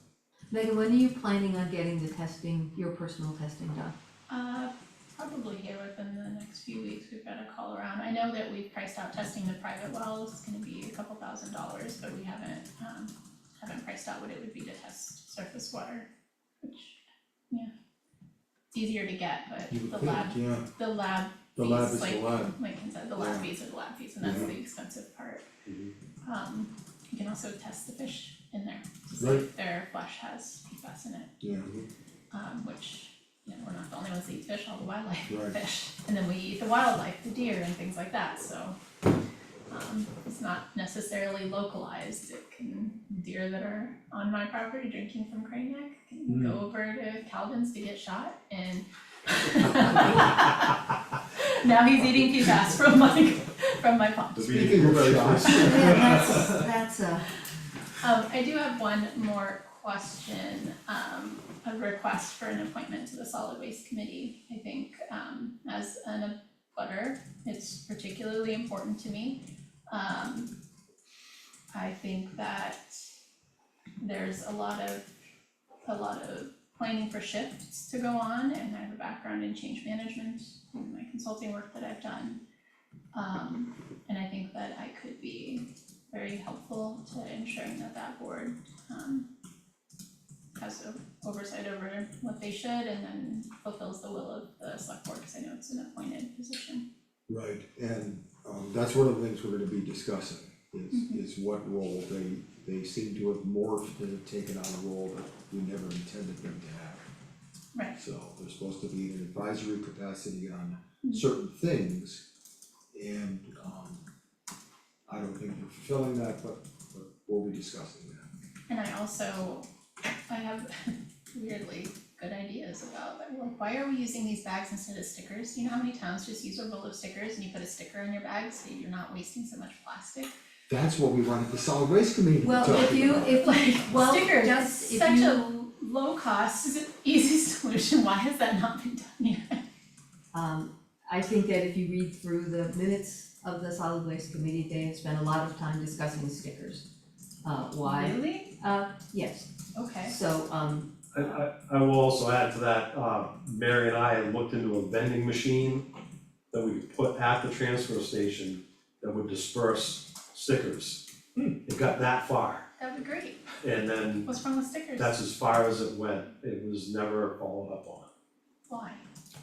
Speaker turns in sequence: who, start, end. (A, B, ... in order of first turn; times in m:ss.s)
0:00.5-0:03.9 A
0:04.3-0:16.1 B
0:16.6-0:17.0 B
0:18.7-0:25.4 B
0:19.7-0:20.7 C
0:21.6-0:22.6 C
0:23.2-0:23.5 C
0:24.2-0:24.5 C
0:25.6-0:25.9 D
0:26.2-0:31.3 B
0:29.2-0:29.4 C
0:31.4-0:31.7 C
0:32.3-0:38.8 B
0:35.3-0:35.6 C
0:39.7-0:54.8 B
0:46.3-0:46.6 C
0:54.3-0:56.3 D
0:54.4-0:56.2 C
0:55.4-0:56.5 B
0:55.6-0:57.3 A
0:58.0-1:10.5 B
1:11.7-1:13.1 B
1:14.0-1:15.1 B
1:15.8-1:22.4 B
1:23.1-1:29.3 B
1:30.6-1:36.8 B
1:37.3-1:47.0 C
1:40.9-1:41.2 B
1:47.9-1:52.2 C
1:52.9-1:54.0 C
1:55.1-1:58.3 C
1:58.7-1:59.7 B
2:00.3-2:10.3 B
2:10.7-2:13.4 C
2:12.4-2:15.5 A
2:13.2-2:19.6 B
2:20.3-2:26.8 A
2:27.4-2:29.5 A
2:27.8-2:28.5 B
2:29.7-2:30.1 B
2:30.0-2:30.9 A
2:31.1-2:35.8 D
2:36.5-2:41.0 D
2:41.6-2:42.6 D
2:42.8-2:43.4 B
2:43.6-2:44.3 D
2:44.2-2:45.2 B
2:45.0-2:48.1 D
2:48.7-2:49.0 B